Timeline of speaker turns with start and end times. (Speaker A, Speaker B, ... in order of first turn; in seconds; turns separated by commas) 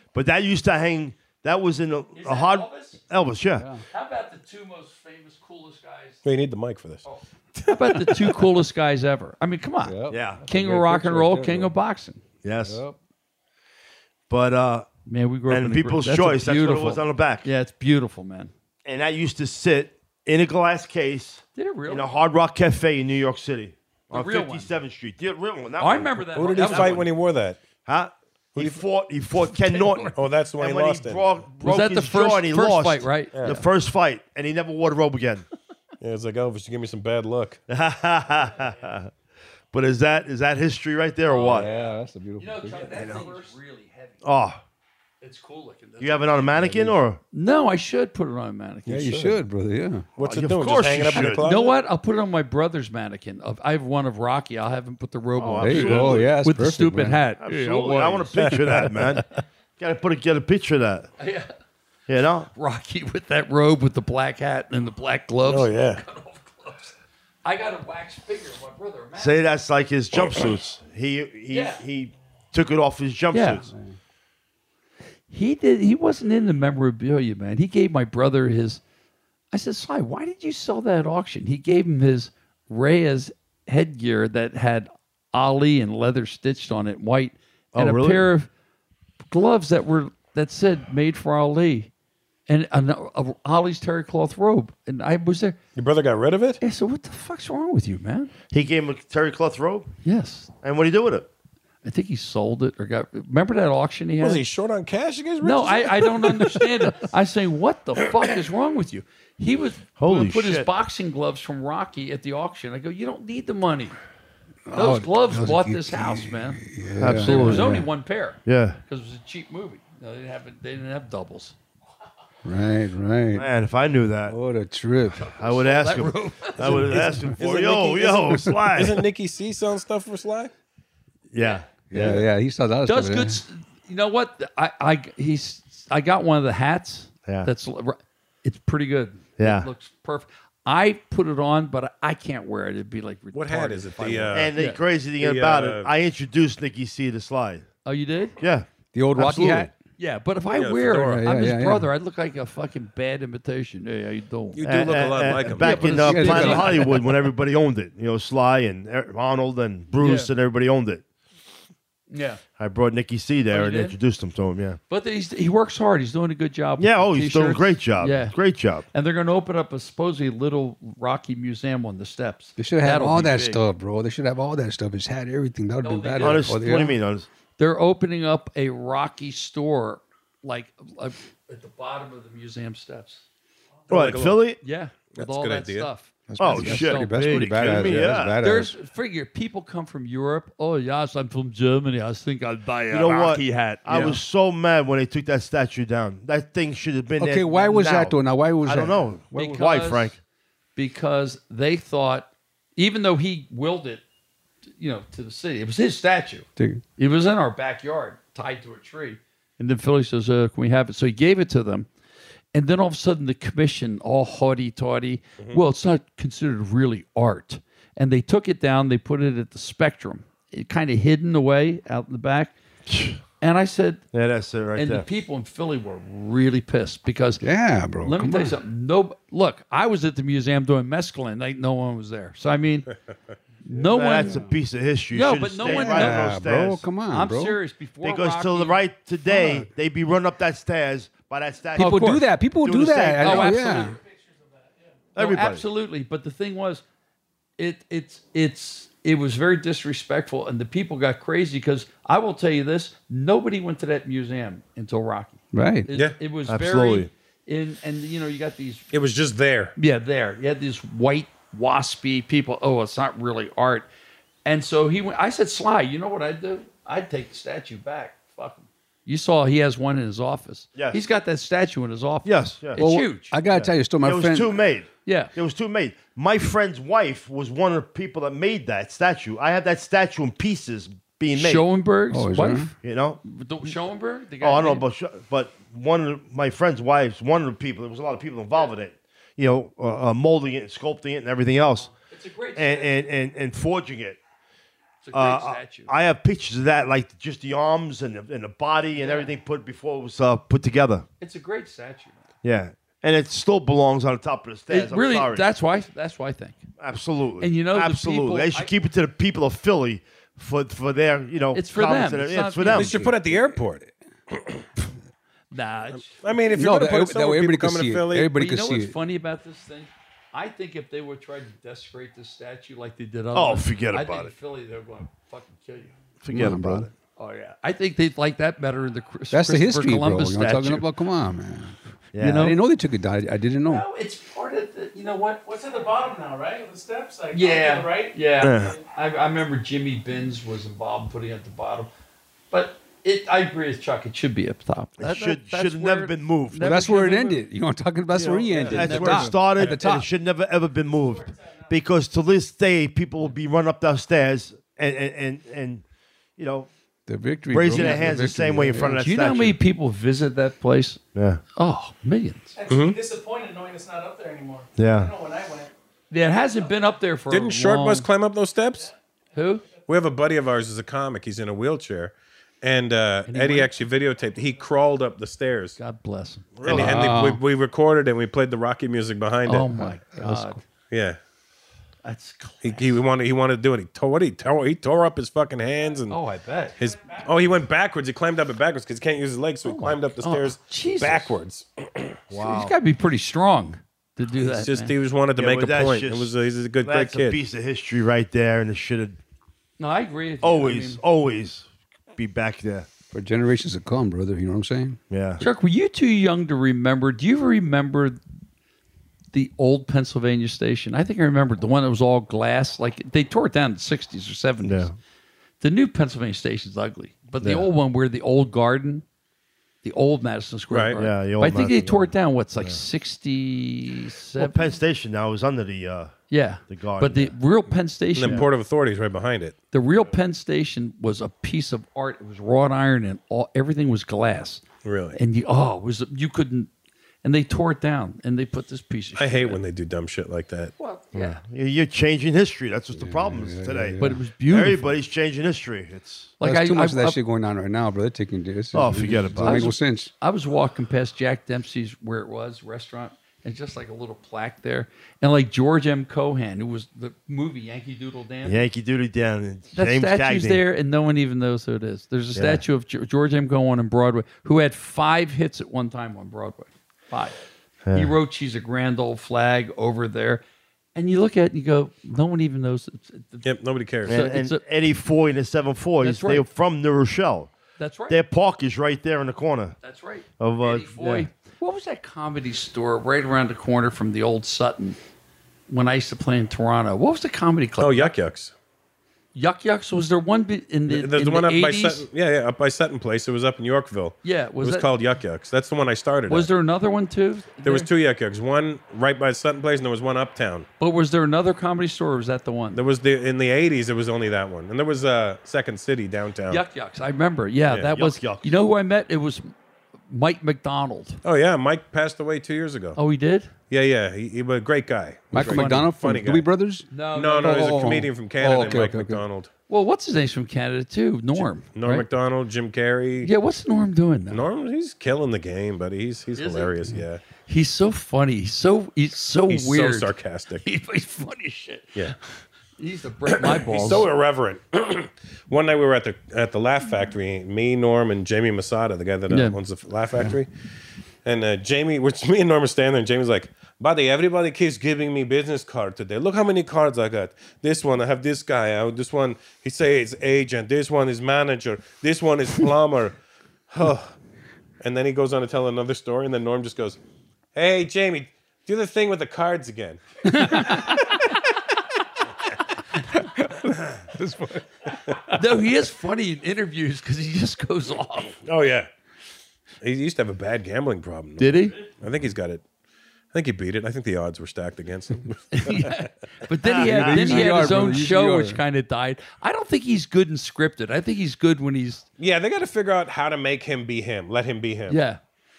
Speaker A: 0.1-3.7, Speaker B: 2.1-3.0, Speaker C: 3.6-3.8, Speaker B: 3.9-6.2, Speaker D: 6.2-7.0, Speaker B: 7.0-12.2, Speaker C: 9.8-11.7, Speaker A: 10.1-10.4, Speaker A: 12.4-12.8, Speaker C: 12.6-13.0, Speaker A: 14.3-14.9, Speaker B: 15.1-18.5, Speaker A: 15.5-17.5, Speaker A: 18.9-27.1, Speaker B: 21.6-22.1, Speaker B: 24.1-24.7, Speaker B: 25.8-27.1, Speaker D: 26.4-27.6, Speaker A: 27.9-35.5, Speaker D: 28.6-28.8, Speaker B: 29.4-30.2, Speaker D: 30.1-31.4, Speaker B: 31.6-33.6, Speaker D: 33.3-33.6, Speaker D: 36.0-37.6, Speaker A: 37.7-39.1, Speaker A: 39.7-41.7, Speaker B: 41.3-44.2, Speaker C: 41.4-43.2, Speaker A: 42.9-43.5, Speaker A: 44.2-44.6, Speaker B: 45.2-46.7, Speaker A: 46.0-47.2, Speaker C: 46.6-47.0, Speaker B: 47.3-49.4, Speaker C: 48.9-50.1, Speaker D: 50.2-51.8, Speaker A: 50.2-51.5, Speaker B: 51.1-59.2, Speaker A: 55.4-56.4, Speaker C: 55.5-57.2, Speaker A: 57.4-59.2, Speaker C: 58.4-58.9, Speaker A: 59.8-61.1, Speaker B: 61.2-61.5, Speaker A: 62.1-62.5, Speaker B: 62.5-69.4, Speaker D: 65.5-66.0, Speaker A: 69.2-73.7, Speaker D: 70.2-70.5, Speaker B: 71.5-71.8, Speaker B: 73.3-73.6, Speaker C: 73.7-74.0, Speaker B: 75.3-78.8, Speaker B: 79.5-88.5, Speaker A: 87.7-88.3, Speaker B: 89.3-91.9, Speaker B: 92.5-95.6, Speaker D: 95.8-96.6, Speaker B: 96.6-98.3, Speaker A: 98.5-99.9, Speaker B: 100.0-100.5, Speaker A: 100.6-101.3, Speaker B: 101.8-104.4, Speaker D: 104.2-106.7, Speaker B: 105.4-114.0, Speaker A: 110.0-110.7, Speaker C: 114.7-117.9, Speaker B: 114.7-116.6, Speaker A: 117.0-117.8, Speaker B: 117.2-121.6, Speaker A: 118.5-118.8, Speaker C: 122.5-123.5, Speaker A: 123.4-124.3, Speaker C: 124.3-125.2, Speaker B: 125.1-127.1, Speaker A: 125.3-129.1, Speaker C: 126.6-127.4, Speaker D: 127.4-130.5, Speaker A: 131.3-132.3, Speaker C: 131.9-133.4, Speaker B: 132.9-144.8, Speaker A: 139.4-139.7, Speaker D: 143.3-144.6, Speaker A: 144.3-147.7, Speaker D: 145.2-145.9, Speaker B: 147.8-148.4, Speaker A: 148.4-149.7, Speaker C: 148.9-149.7, Speaker B: 150.0-157.0, Speaker D: 150.5-151.2, Speaker C: 150.9-151.9, Speaker D: 154.5-155.8, Speaker A: 154.6-161.0, Speaker C: 155.7-157.0, Speaker B: 160.0-160.3, Speaker B: 162.1-162.4, Speaker A: 162.6-164.8, Speaker B: 163.5-164.0, Speaker B: 164.9-168.4, Speaker A: 166.8-168.8, Speaker B: 168.9-173.4, Speaker C: 172.6-177.0, Speaker A: 173.0-173.6, Speaker B: 175.8-176.9, Speaker A: 176.2-177.3, Speaker B: 177.6-183.2, Speaker D: 183.9-184.4, Speaker A: 183.9-184.6, Speaker B: 184.6-194.1, Speaker D: 185.1-185.9, Speaker C: 186.3-188.8, Speaker A: 186.4-188.4, Speaker A: 192.9-200.2, Speaker D: 193.9-194.2, Speaker C: 197.2-199.6, Speaker B: 199.3-200.2, Speaker B: 200.8-204.0, Speaker B: 204.8-211.9, Speaker C: 206.6-206.8, Speaker B: 212.5-222.6, Speaker A: 222.9-223.2, Speaker B: 223.4-224.0, Speaker A: 224.1-225.0, Speaker B: 224.8-227.4, Speaker C: 227.4-228.6, Speaker B: 228.0-232.9, Speaker B: 233.7-234.4, Speaker A: 233.7-236.9, Speaker C: 234.2-234.6, Speaker B: 235.1-236.3, Speaker C: 235.6-237.6, Speaker B: 237.1-239.6, Speaker A: 238.0-244.0, Speaker C: 239.3-239.7, Speaker C: 241.8-244.0, Speaker B: 241.8-242.2, Speaker B: 243.2-243.9, Speaker E: 243.8-245.0, Speaker A: 245.2-245.6, Speaker B: 245.2-246.8, Speaker B: 247.6-258.9, Speaker C: 255.5-255.9, Speaker A: 256.5-257.1, Speaker D: 258.9-259.7, Speaker B: 259.8-263.9, Speaker B: 264.4-273.4, Speaker A: 272.2-272.8, Speaker C: 272.8-274.6, Speaker A: 273.5-281.6, Speaker B: 275.1-275.4, Speaker B: 281.3-284.8, Speaker C: 282.1-282.7, Speaker A: 282.8-283.2, Speaker A: 284.4-291.9, Speaker B: 291.9-292.9, Speaker A: 292.6-294.2, Speaker B: 295.0-295.9, Speaker A: 295.1-301.1, Speaker B: 299.0-299.3, Speaker B: 301.2-302.2, Speaker A: 302.4-305.5, Speaker B: 304.7-306.6, Speaker A: 306.8-313.0, Speaker B: 307.4-308.7, Speaker B: 311.5-312.9, Speaker D: 312.8-314.6, Speaker C: 312.9-313.9, Speaker B: 315.5-316.2, Speaker D: 315.9-318.3, Speaker C: 316.5-319.0, Speaker B: 318.3-325.9, Speaker A: 323.3-324.3, Speaker A: 326.2-326.9, Speaker C: 326.3-326.9, Speaker B: 327.2-330.9, Speaker C: 329.3-331.8, Speaker A: 332.1-332.5, Speaker B: 332.2-332.6, Speaker C: 332.3-333.9, Speaker B: 333.7-335.4, Speaker E: 335.4-338.8, Speaker B: 337.3-341.9, Speaker A: 338.4-338.8, Speaker B: 342.5-347.4, Speaker A: 345.0-346.8, Speaker C: 346.6-350.1, Speaker A: 348.2-355.8, Speaker B: 348.7-350.0, Speaker E: 350.9-351.8, Speaker A: 356.4-356.7, Speaker C: 357.1-358.9, Speaker A: 357.5-359.6, Speaker B: 357.8-358.1, Speaker B: 358.7-361.0, Speaker A: 361.1-361.4, Speaker B: 361.6-362.6, Speaker E: 362.6-365.7, Speaker D: 362.7-363.0, Speaker A: 364.8-365.1, Speaker B: 366.1-368.1, Speaker D: 367.3-368.9, Speaker B: 369.4-369.6, Speaker D: 369.9-375.8, Speaker B: 373.3-373.9, Speaker E: 374.3-374.6, Speaker B: 375.8-376.9, Speaker D: 376.6-379.8, Speaker A: 376.6-377.1, Speaker C: 376.6-377.4, Speaker B: 379.5-380.6, Speaker C: 379.8-380.6, Speaker D: 380.9-381.2, Speaker B: 382.0-383.0, Speaker D: 382.6-386.2, Speaker B: 386.1-386.8, Speaker D: 386.8-392.1, Speaker E: 386.8-387.4, Speaker B: 389.6-391.3, Speaker A: 392.3-392.8, Speaker B: 392.4-394.9, Speaker D: 394.4-397.4, Speaker A: 395.4-399.2, Speaker B: 399.8-401.0, Speaker A: 400.4-402.9, Speaker C: 403.1-405.0, Speaker A: 405.1-405.4, Speaker B: 405.4-408.2, Speaker B: 409.3-414.9, Speaker A: 414.6-414.9, Speaker B: 415.6-419.1, Speaker A: 417.4-417.7, Speaker B: 419.8-424.7, Speaker D: 420.7-421.0, Speaker A: 420.9-422.8, Speaker A: 424.4-426.1, Speaker B: 426.3-428.5, Speaker A: 426.7-427.4, Speaker D: 428.1-429.6, Speaker B: 429.7-434.6, Speaker D: 434.8-435.2, Speaker B: 435.1-436.7, Speaker B: 437.2-439.6, Speaker D: 439.2-440.7, Speaker B: 440.8-441.4, Speaker A: 441.1-446.3, Speaker C: 442.9-444.2, Speaker B: 444.0-444.9, Speaker B: 446.4-447.2, Speaker C: 446.4-450.1, Speaker A: 448.7-449.7, Speaker B: 449.4-458.7, Speaker A: 458.4-460.6, Speaker B: 459.7-467.4, Speaker A: 462.4-462.6, Speaker A: 467.9-468.1, Speaker B: 467.9-470.4, Speaker B: 470.9-473.5, Speaker D: 473.4-474.2, Speaker B: 474.1-474.6, Speaker A: 474.1-477.5, Speaker B: 476.0-476.5, Speaker B: 477.8-478.2, Speaker A: 478.1-479.8, Speaker B: 479.8-485.0, Speaker A: 480.4-481.3, Speaker B: 485.7-488.1, Speaker D: 487.8-488.5, Speaker B: 489.4-492.1, Speaker D: 490.9-496.5, Speaker B: 494.2-494.9, Speaker B: 496.3-497.9, Speaker D: 497.6-500.7, Speaker B: 500.8-502.8, Speaker D: 502.7-506.6, Speaker B: 506.5-509.5, Speaker A: 507.9-508.5, Speaker B: 510.1-511.2, Speaker D: 511.2-513.0, Speaker B: 513.0-513.5, Speaker D: 513.7-516.5, Speaker C: 515.3-516.9, Speaker B: 515.4-515.9, Speaker B: 516.9-517.8, Speaker D: 517.1-519.5, Speaker C: 517.4-519.2, Speaker B: 519.7-522.1, Speaker D: 521.4-523.3, Speaker B: 523.2-524.5, Speaker D: 524.3-527.2, Speaker B: 526.4-532.2, Speaker D: 529.5-530.7, Speaker B: 532.8-534.1, Speaker D: 533.3-540.5, Speaker B: 539.3-539.6, Speaker D: 541.2-553.1, Speaker D: 553.7-554.1, Speaker D: 554.8-557.0, Speaker D: 557.5-560.7, Speaker B: 560.3-561.0, Speaker C: 563.1-565.4, Speaker B: 565.4-568.4, Speaker D: 568.4-568.9, Speaker D: 569.8-572.6, Speaker B: 571.4-571.8, Speaker D: 573.3-576.0, Speaker B: 575.5-582.1, Speaker A: 576.8-577.5, Speaker C: 576.8-578.6, Speaker D: 582.2-585.0, Speaker B: 584.9-585.2